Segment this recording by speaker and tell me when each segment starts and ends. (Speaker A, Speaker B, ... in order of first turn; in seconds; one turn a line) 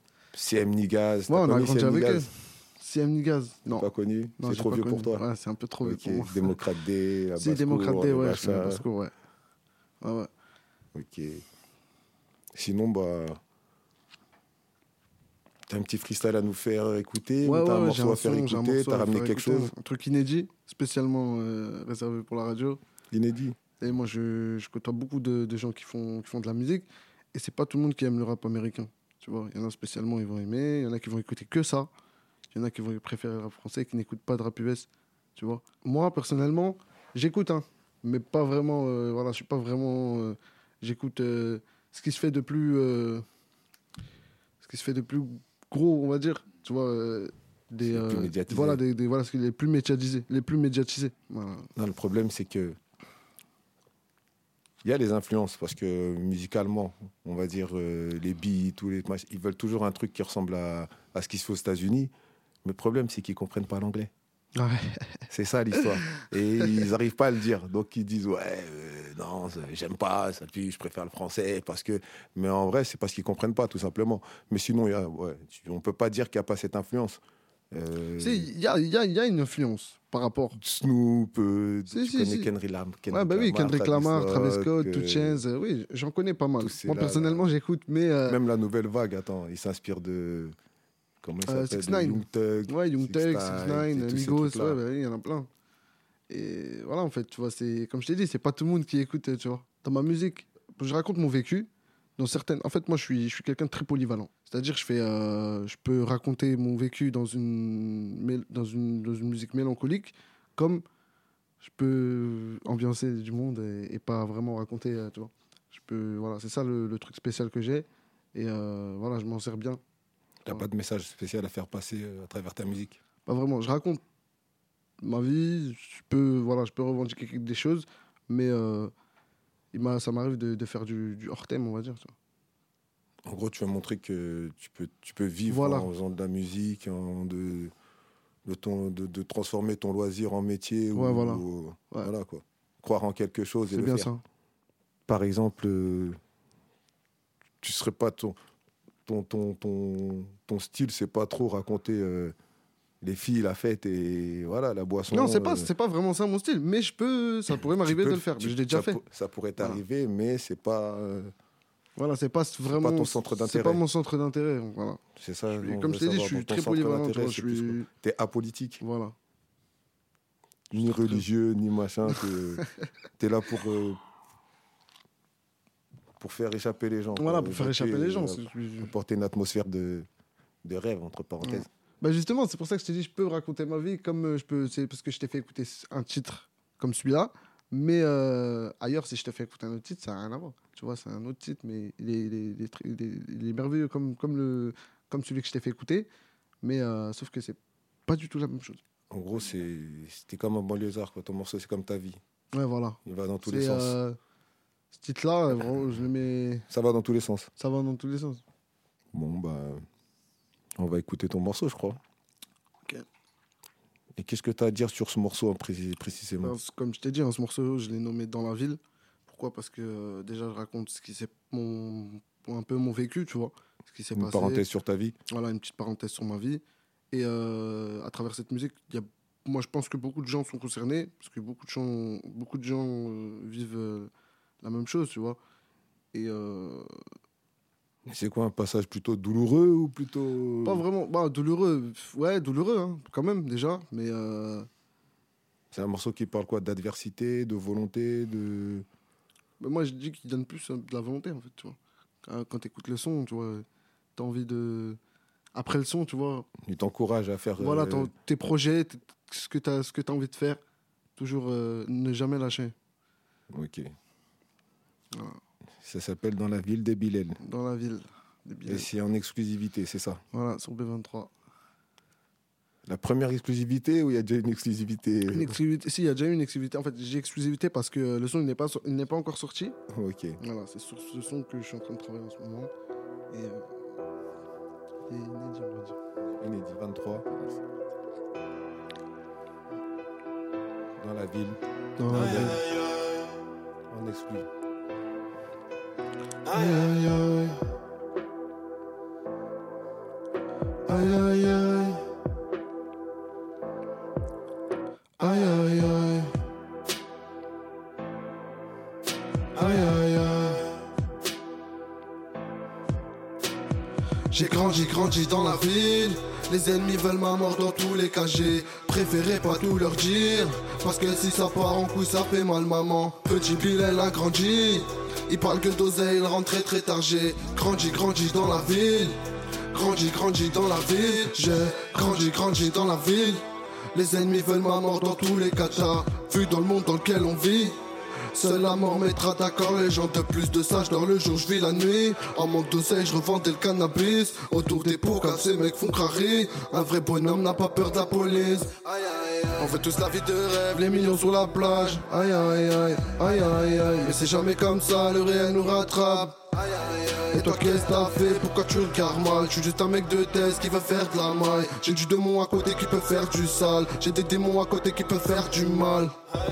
Speaker A: 0.3-2.3
Speaker B: 1.3-3.9
Speaker A: 3.7-5.2
Speaker B: 4.4-6.5
Speaker A: 5.8-8.8
Speaker B: 7.4-9.1
Speaker B: 10.0-10.3
Speaker A: 10.9-11.4
Speaker A: 12.5-13.4
Speaker A: 15.7-19.7
Speaker B: 17.4-22.8
Speaker A: 23.1-23.6
Speaker B: 23.8-31.9
Speaker B: 32.5-43.2
Speaker B: 44.6-51.7
Speaker A: 47.8-48.8
Speaker A: 51.8-52.8
Speaker A: 54.8-62.1
Speaker A: 62.6-64.1
Speaker B: 64.5-65.2
Speaker A: 65.3-78.5
Speaker B: 78.2-80.6
Speaker A: 80.5-85.4
Speaker B: 81.9-82.5
Speaker B: 83.1-88.4
Speaker A: 86.6-87.5
Speaker A: 88.2-90.5
Speaker A: 91.2-94.8
Speaker B: 91.5-95.5
Speaker B: 96.3-110.8
Speaker B: 111.6-119.8
Speaker A: 120.4-123.0
Speaker B: 123.2-124.0
Speaker B: 125.0-128.9
Speaker B: 129.7-132.1
Speaker A: 133.2-137.7
Speaker B: 135.5-135.9
Speaker A: 138.4-144.1
Speaker B: 140.9-142.1
Speaker B: 143.7-144.2
Speaker A: 145.1-146.2
Speaker A: 147.6-148.4
Speaker A: 149.1-152.3
Speaker A: 153.0-155.7
Speaker B: 155.1-159.0
Speaker A: 157.8-161.3
Speaker B: 162.0-165.0
Speaker A: 162.7-163.8
Speaker A: 165.1-168.8
Speaker B: 165.5-167.9
Speaker B: 168.8-169.1
Speaker A: 170.7-172.6
Speaker A: 173.2-174.0
Speaker A: 176.2-180.1
Speaker B: 177.2-178.9
Speaker A: 180.6-181.7
Speaker B: 181.4-196.1
Speaker B: 196.6-198.8
Speaker A: 199.1-202.2
Speaker B: 202.5-204.2
Speaker A: 203.0-204.0
Speaker B: 204.9-206.6
Speaker A: 206.7-207.5
Speaker B: 207.6-208.4
Speaker A: 209.1-209.8
Speaker A: 210.8-212.0
Speaker A: 214.2-216.6
Speaker B: 216.4-224.6
Speaker A: 224.1-225.2
Speaker B: 225.3-234.1
Speaker B: 234.6-235.4
Speaker B: 236.1-236.9
Speaker A: 238.1-240.8
Speaker B: 240.6-244.7
Speaker A: 245.7-248.8
Speaker B: 249.6-253.6
Speaker B: 254.2-255.0
Speaker B: 255.5-256.5
Speaker A: 256.6-258.1
Speaker B: 257.6-260.6
Speaker B: 261.2-262.7
Speaker A: 263.5-263.9
Speaker A: 265.8-267.4
Speaker B: 267.4-268.9
Speaker A: 268.7-270.2
Speaker B: 270.3-271.3
Speaker A: 272.9-275.6
Speaker B: 275.3-279.8
Speaker A: 279.9-280.4
Speaker B: 280.4-282.7
Speaker B: 283.3-283.6
Speaker B: 285.1-285.9
Speaker A: 286.4-287.3
Speaker A: 291.0-292.7
Speaker B: 292.0-292.6
Speaker A: 293.9-294.5
Speaker B: 296.5-297.6
Speaker B: 300.9-302.0
Speaker B: 305.2-306.3
Speaker B: 309.5-310.7
Speaker B: 314.3-329.2
Speaker B: 329.7-337.8
Speaker B: 338.3-366.1